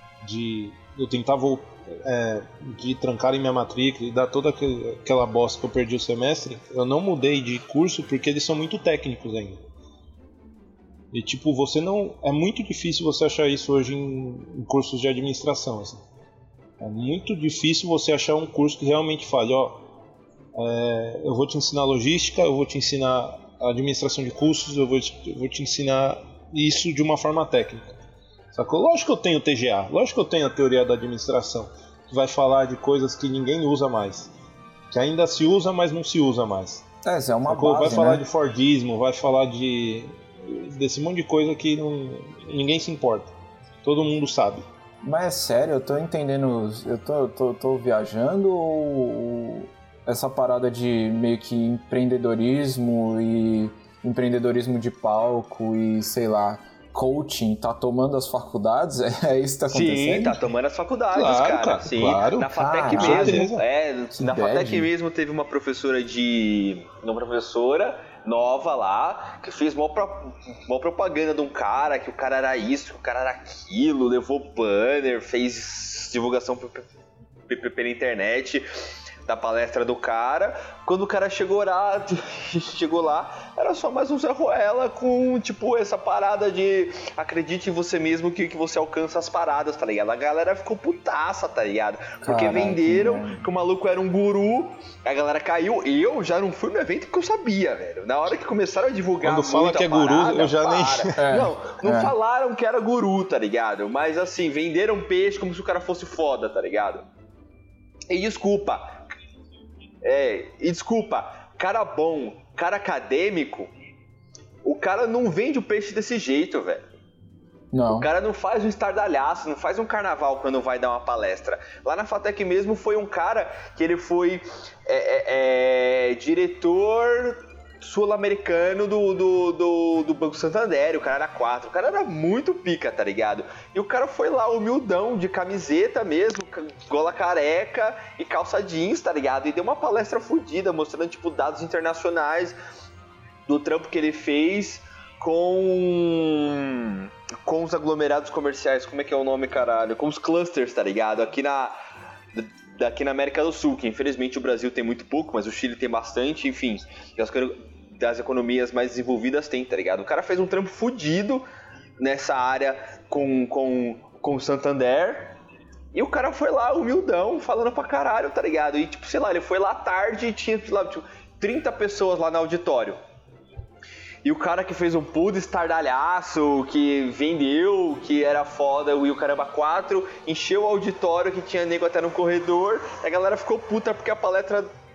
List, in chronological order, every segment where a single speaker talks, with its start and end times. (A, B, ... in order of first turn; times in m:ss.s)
0:00.2-0:09.6 A
0:11.1-0:16.0 A
0:16.8-0:19.8 A
0:20.5-0:27.9 A
0:28.5-0:34.3 A
0:34.9-0:36.8 A
0:37.0-0:38.2 B
0:37.5-0:43.3 A
0:43.8-0:44.6 A
0:45.0-1:00.4 B
0:59.7-1:16.9 C
1:01.1-1:03.6 A
1:02.6-1:03.5 B
1:04.1-1:04.9 B
1:17.5-1:18.6 C
1:19.2-1:47.0 C
1:32.2-1:33.5 B
1:39.2-1:41.2 A
1:41.2-1:42.1 B
1:48.1-1:49.0 C
1:50.0-1:53.7 C
1:54.6-1:56.8 C
1:57.7-1:58.1 B
1:57.9-2:22.6 C
2:23.4-2:31.7 C
2:32.3-2:41.4 C
2:42.0-2:45.3 C
2:45.9-2:53.0 C
2:54.2-3:04.7 C